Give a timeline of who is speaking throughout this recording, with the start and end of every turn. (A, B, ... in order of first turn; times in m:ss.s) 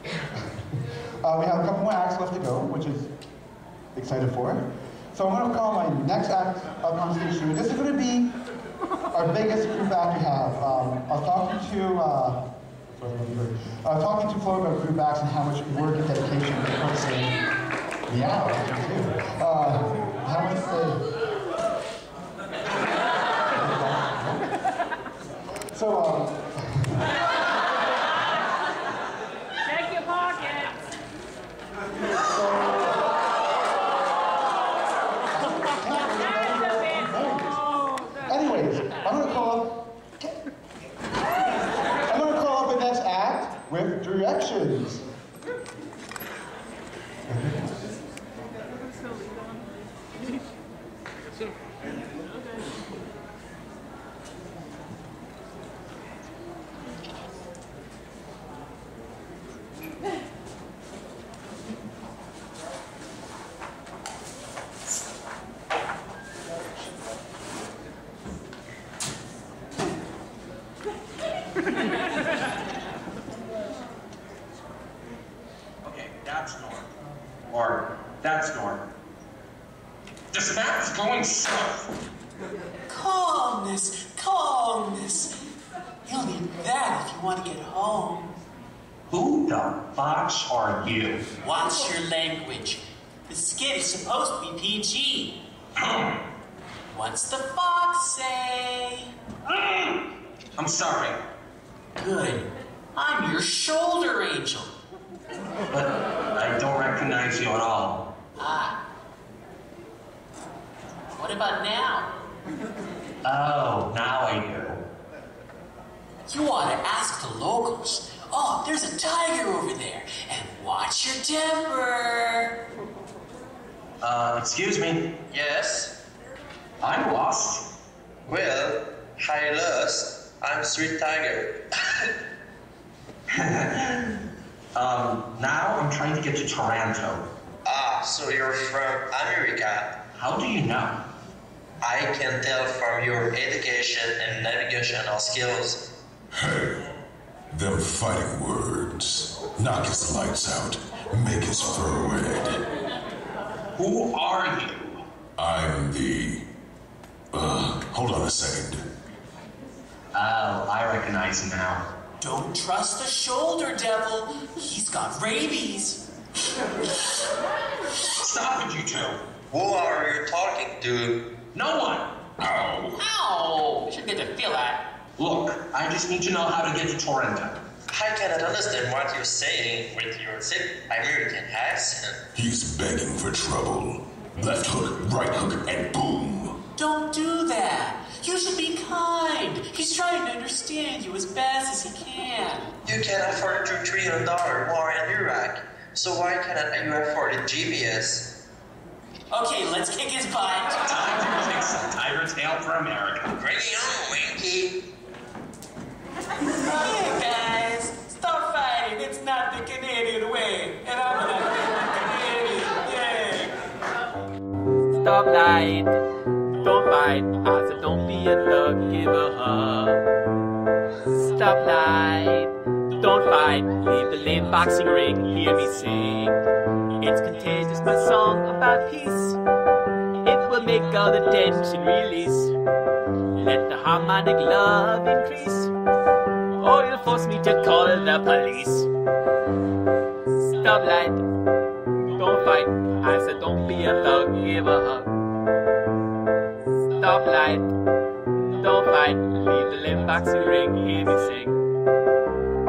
0:01.2-0:03.1 A
0:03.9-0:08.3 A
0:09.1-0:17.4 A
0:18.1-0:21.1 A
0:23.5-0:24.5 A
0:25.7-0:27.0 A
0:32.2-0:33.1 A
0:35.3-0:37.6 A
0:38.2-0:40.4 A
0:42.1-0:45.0 A
0:47.3-0:47.7 A
1:15.8-1:16.9 B
1:17.5-1:18.8 B
1:20.3-1:21.9 B
1:22.9-1:25.3 C
1:26.0-1:28.3 C
1:29.1-1:31.2 B
1:31.4-1:35.4 C
1:35.8-1:36.2 B
1:36.9-1:39.1 C
1:39.5-1:41.2 B
1:42.0-1:44.7 C
1:45.7-1:48.1 B
1:48.4-1:48.8 C
1:51.1-1:52.1 C
1:53.2-1:54.8 B
1:56.3-2:02.5 C
2:04.0-2:05.1 B
2:05.3-2:05.9 D
2:06.8-2:07.7 B
2:08.3-2:12.0 D
2:13.3-2:14.1 B
2:14.7-2:17.2 B
2:17.6-2:19.9 D
2:20.1-2:21.0 B
2:21.8-2:25.8 D
2:26.4-2:26.8 E
2:27.5-2:32.6 E
2:33.8-2:35.0 B
2:35.4-2:36.4 E
2:37.3-2:38.8 E
2:40.1-2:41.9 B
2:42.2-2:46.0 C
2:48.2-2:49.2 B
2:49.5-2:51.2 D
2:51.5-2:52.1 B
2:52.4-2:53.0 E
2:53.0-2:54.7 C
2:55.2-2:57.6 B
2:57.9-3:02.2 D
3:02.3-3:06.6 E
3:06.8-3:12.7 C
3:12.8-3:18.2 D
3:19.3-3:20.8 C
3:20.9-3:23.3 B
3:23.3-3:24.8 D
3:26.6-3:33.5 C
3:35.0-3:35.9 F
3:36.6-3:40.0 F
3:41.2-3:46.4 F
3:47.0-3:49.0 F
3:50.2-3:52.5 F
3:53.4-3:55.7 F
3:56.6-3:58.9 F
4:00.6-4:01.2 F
4:02.2-4:05.0 F
4:07.0-4:07.7 F
4:08.6-4:11.5 F